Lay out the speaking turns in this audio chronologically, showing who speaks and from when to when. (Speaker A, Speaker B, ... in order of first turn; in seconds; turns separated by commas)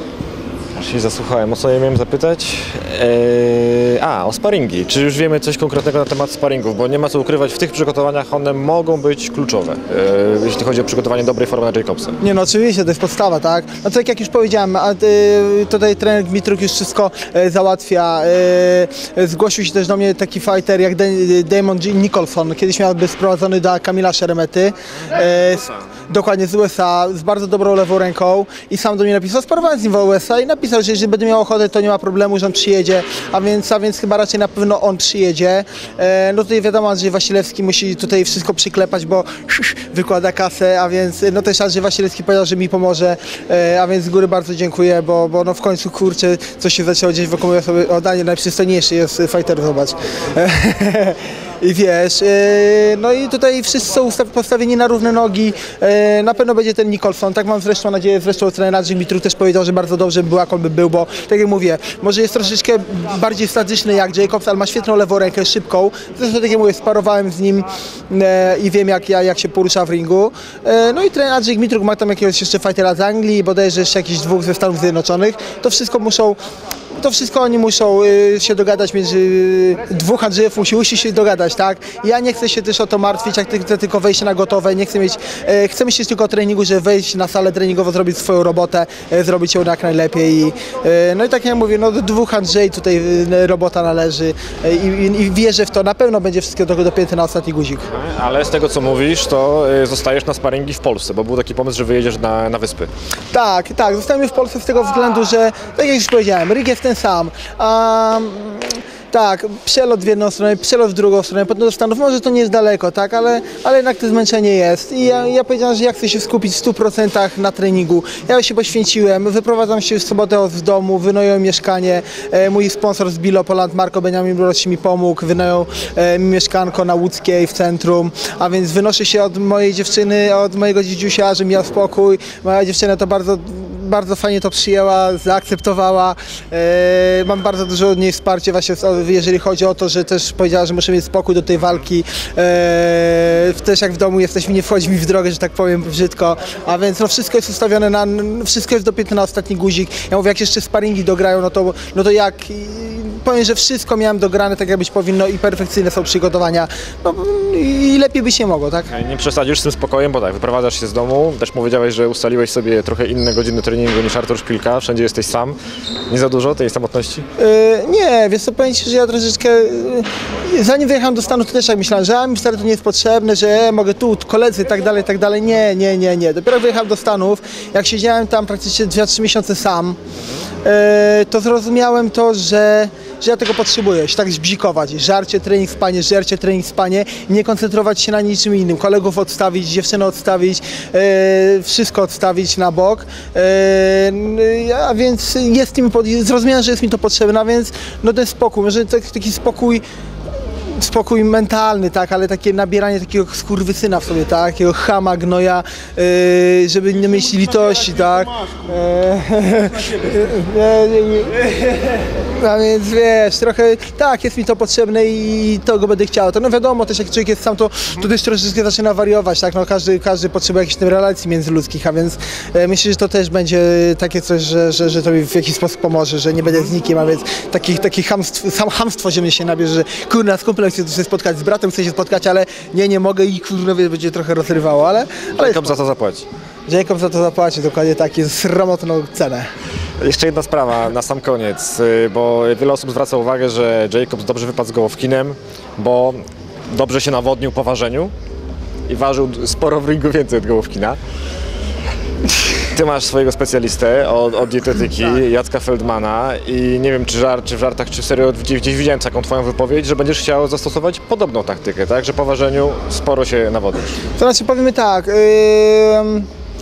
Speaker A: 0.8-12.2, Speaker B: 12.2-76.4, Speaker B: 77.0-97.9, Speaker A: 97.9-102.9, Speaker B: 103.3-158.9, Speaker A: 158.9-165.6, Speaker A: 166.1-167.3, Speaker B: 167.4-180.0, Speaker B: 180.6-199.8, Speaker B: 200.7-211.4, Speaker B: 212.3-235.7, Speaker A: 235.3-236.3, Speaker B: 236.7-239.5, Speaker A: 240.0-246.2, Speaker A: 246.7-248.1, Speaker A: 248.9-251.0, Speaker A: 252.6-264.0, Speaker B: 264.2-266.3